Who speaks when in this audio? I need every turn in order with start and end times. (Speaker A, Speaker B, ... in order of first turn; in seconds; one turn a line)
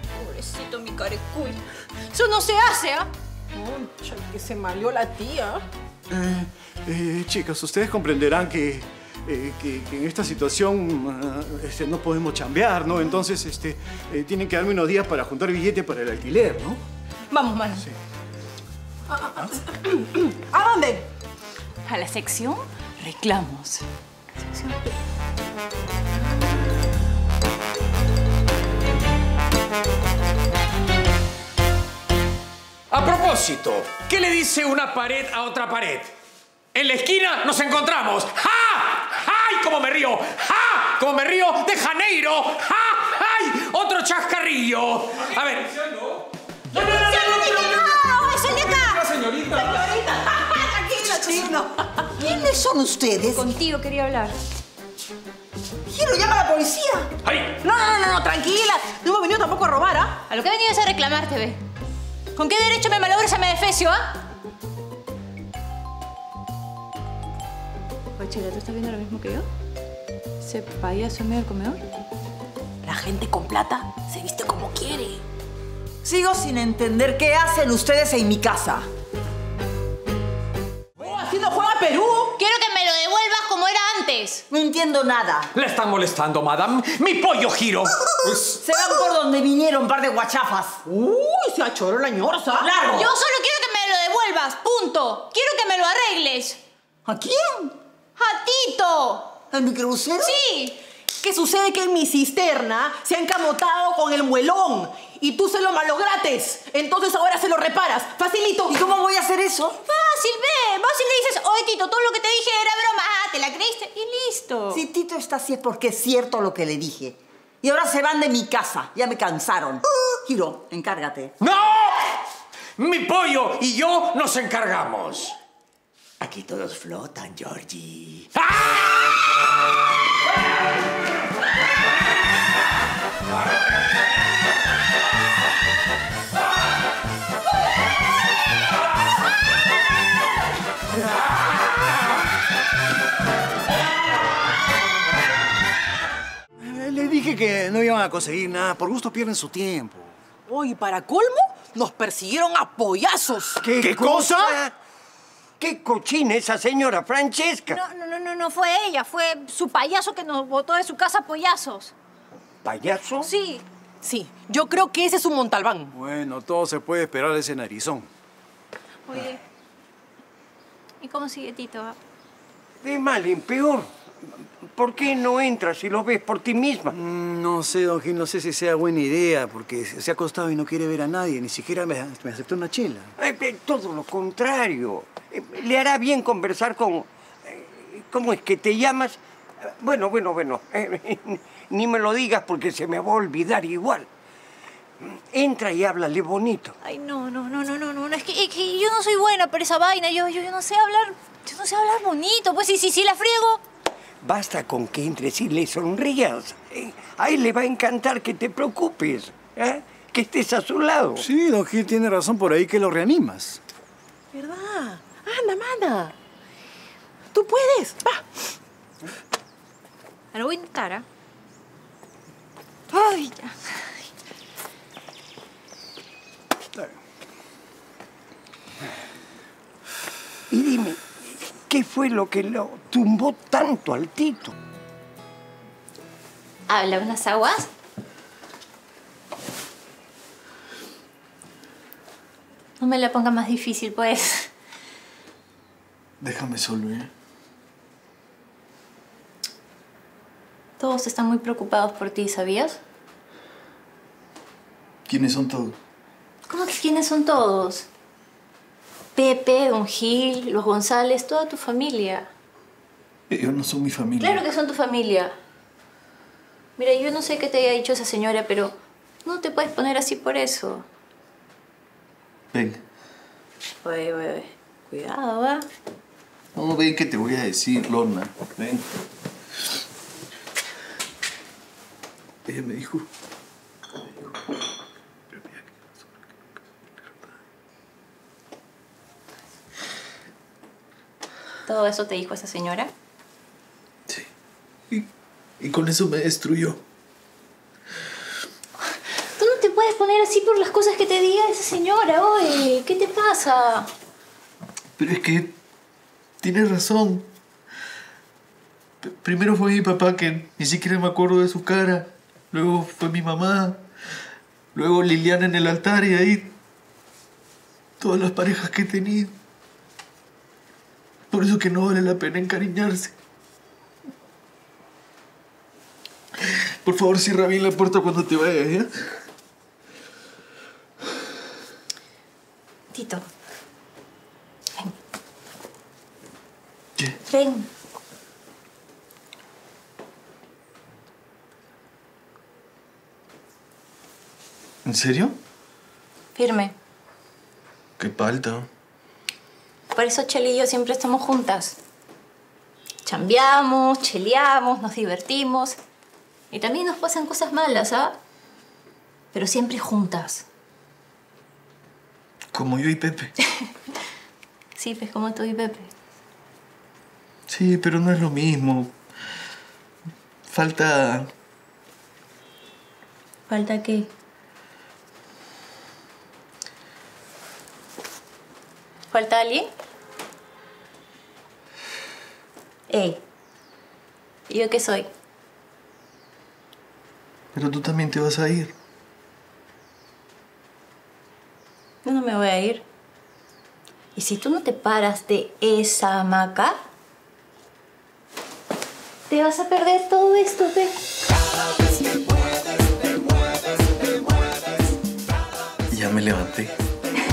Speaker A: 0.2-1.6
Speaker A: 2.1-3.1
Speaker B: 3.5-5.6
Speaker C: 6.1-16.8
Speaker A: 17.3-17.9
Speaker B: 19.1-21.1
Speaker A: 21.9-23.8
Speaker A: 24.5-24.8
Speaker D: 32.9-36.1
Speaker D: 36.7-46.2
Speaker B: 46.7-48.0
Speaker A: 46.7-49.0
Speaker E: 46.8-48.3
Speaker D: 49.1-49.5
Speaker B: 49.4-52.0
Speaker E: 51.1-53.5
Speaker A: 52.2-52.5
Speaker A: 53.3-54.4
Speaker E: 55.9-57.1
Speaker D: 57.2-57.5
Speaker B: 57.6-60.2
Speaker A: 60.3-61.6
Speaker A: 62.4-64.1
Speaker A: 68.2-69.5
Speaker A: 70.4-71.8
Speaker B: 72.8-75.2
Speaker E: 76.0-78.9
Speaker B: 81.0-82.4
Speaker A: 82.4-84.4
Speaker E: 84.5-85.5
Speaker D: 85.5-88.6
Speaker E: 88.6-90.8
Speaker B: 90.9-92.8
Speaker E: 92.6-93.1
Speaker A: 92.8-96.6
Speaker E: 97.1-97.8
Speaker A: 98.2-99.3
Speaker E: 99.5-100.4
Speaker A: 100.2-100.8
Speaker B: 101.2-108.9
Speaker E: 108.7-109.8
Speaker A: 109.8-114.8
Speaker E: 114.7-121.3
Speaker D: 121.4-122.2
Speaker D: 122.8-125.3
Speaker D: 126.2-128.2
Speaker C: 146.6-150.1
Speaker B: 150.5-153.6
Speaker F: 153.6-154.7
Speaker C: 153.8-154.6
Speaker F: 155.6-157.8
Speaker A: 157.7-161.9
Speaker F: 162.6-163.3
Speaker A: 163.2-163.6
Speaker B: 164.0-165.9
Speaker C: 165.9-168.1
Speaker A: 169.1-169.4
Speaker A: 171.0-172.0
Speaker F: 172.8-177.0
Speaker C: 176.9-183.1
Speaker F: 183.2-189.2
Speaker F: 189.7-194.1
Speaker F: 195.0-196.7
Speaker A: 196.8-203.6
Speaker F: 204.2-211.3
Speaker C: 211.2-213.6
Speaker B: 214.3-216.1
Speaker B: 217.3-218.2
Speaker A: 220.3-221.1
Speaker A: 222.9-223.8
Speaker F: 230.5-234.5
Speaker A: 236.7-237.7
Speaker A: 242.8-244.5
Speaker G: 246.2-247.1
Speaker A: 250.8-252.8
Speaker G: 255.1-255.8
Speaker A: 256.5-257.9
Speaker A: 259.1-262.3
Speaker G: 263.3-264.4
Speaker A: 264.2-265.4
Speaker A: 266.8-270.9
Speaker G: 272.5-272.8
Speaker A: 273.8-275.6
Speaker G: 276.6-278.9
Speaker G: 282.5-283.1
Speaker A: 291.6-292.9
Speaker G: 295.6-296.8
Speaker A: 299.4-303.9
Speaker G: 305.0-305.6
Speaker G: 306.4-307.3
Speaker G: 309.0-313.9
Speaker G: 314.8-316.6
Speaker G: 318.0-319.4
Speaker G: 321.3-323.1
Speaker G: 326.5-328.9
Speaker A: 332.9-333.2
Speaker A: 337.3-337.7
Speaker G: 344.9-345.4
Speaker A: 346.4-346.8
Speaker G: 348.0-348.7
Speaker A: 349.9-351.8
Speaker A: 353.0-355.8
Speaker A: 356.5-358.2
Speaker A: 359.3-360.4
Speaker G: 362.5-363.3
Speaker A: 364.8-365.9
Speaker G: 367.5-369.0
Speaker G: 370.5-371.3
Speaker A: 373.5-374.1
Speaker A: 379.1-379.7
Speaker A: 382.9-383.2
Speaker A: 384.5-385.1
Speaker G: 387.5-388.8
Speaker A: 392.1-392.9
Speaker A: 394.2-396.8
Speaker A: 399.3-400.9
Speaker G: 405.9-406.7